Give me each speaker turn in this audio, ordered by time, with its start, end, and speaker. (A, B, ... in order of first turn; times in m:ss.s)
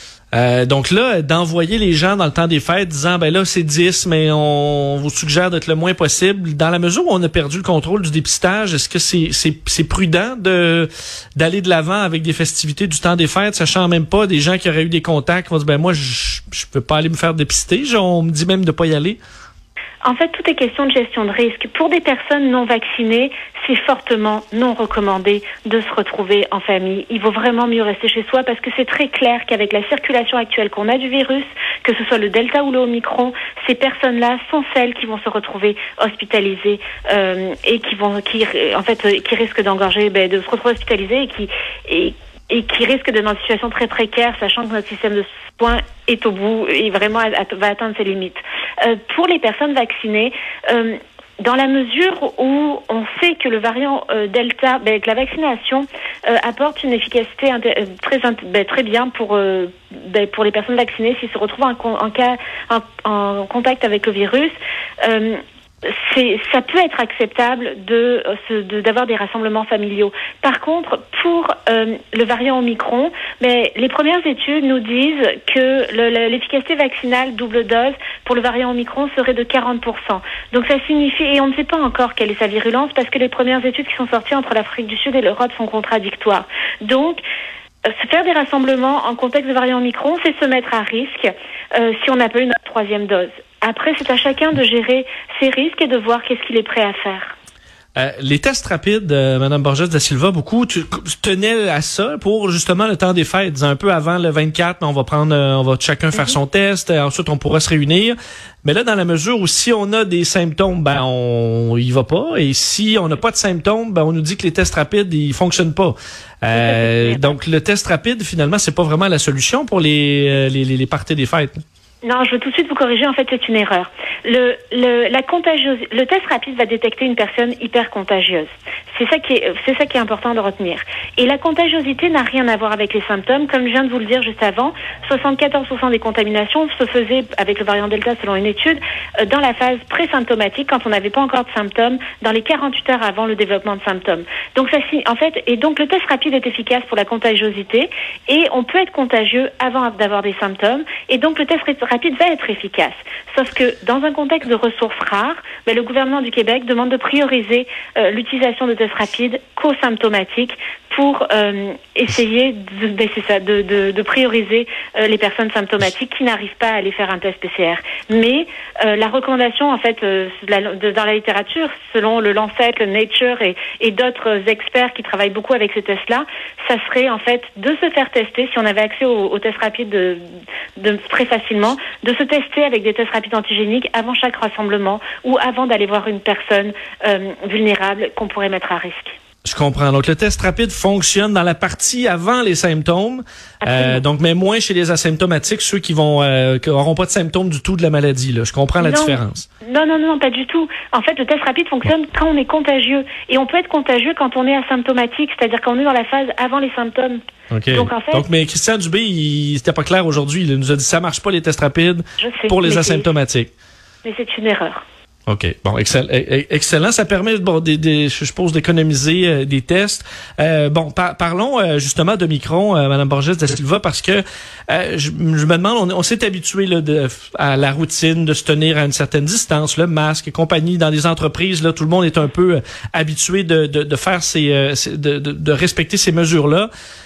0:00.3-0:19.2 A
0:20.0-1:27.2 B
1:27.9-1:37.4 B
1:38.0-2:01.6 A
1:56.5-1:57.4 B
2:02.0-3:00.2 B
3:00.8-3:09.2 B
3:09.4-3:19.5 A
3:13.6-3:14.0 B
3:18.8-3:27.2 B
3:27.5-3:33.5 A
3:27.7-3:28.3 B
3:32.2-3:33.1 B
3:34.0-3:34.8 B
3:35.3-3:56.7 A